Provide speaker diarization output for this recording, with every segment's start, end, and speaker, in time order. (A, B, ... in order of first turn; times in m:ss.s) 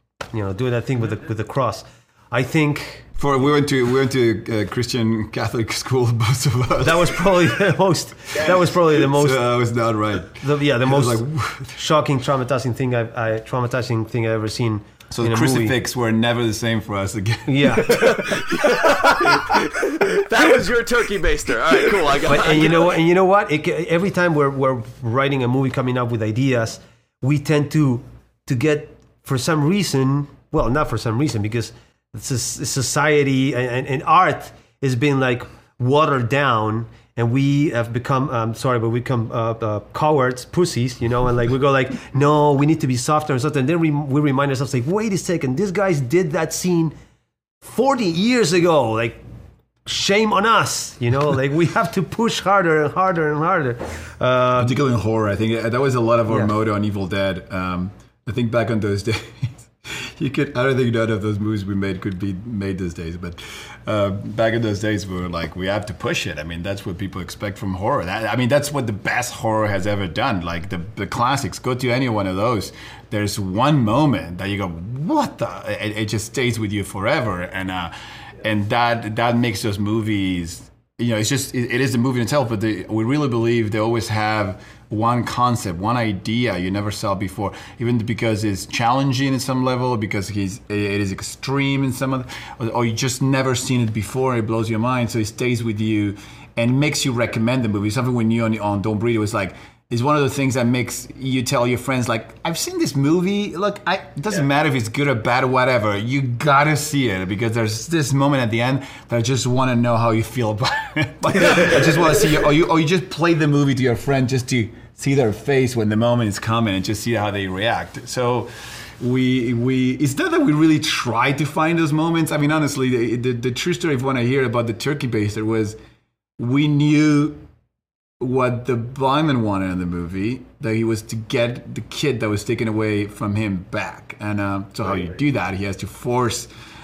0:00.3-0:03.0 A
0:03.2-0:07.6 B
0:06.8-0:09.4 A
0:08.3-0:11.8 B
0:10.4-0:15.8 A
0:15.1-0:18.9 B
0:17.5-0:18.3 A
0:18.0-0:23.0 C
0:22.2-0:46.9 A
0:47.6-0:49.2 A
0:49.8-0:54.8 A
0:54.6-2:05.8 B
2:06.4-2:07.4 B
2:08.2-2:16.5 B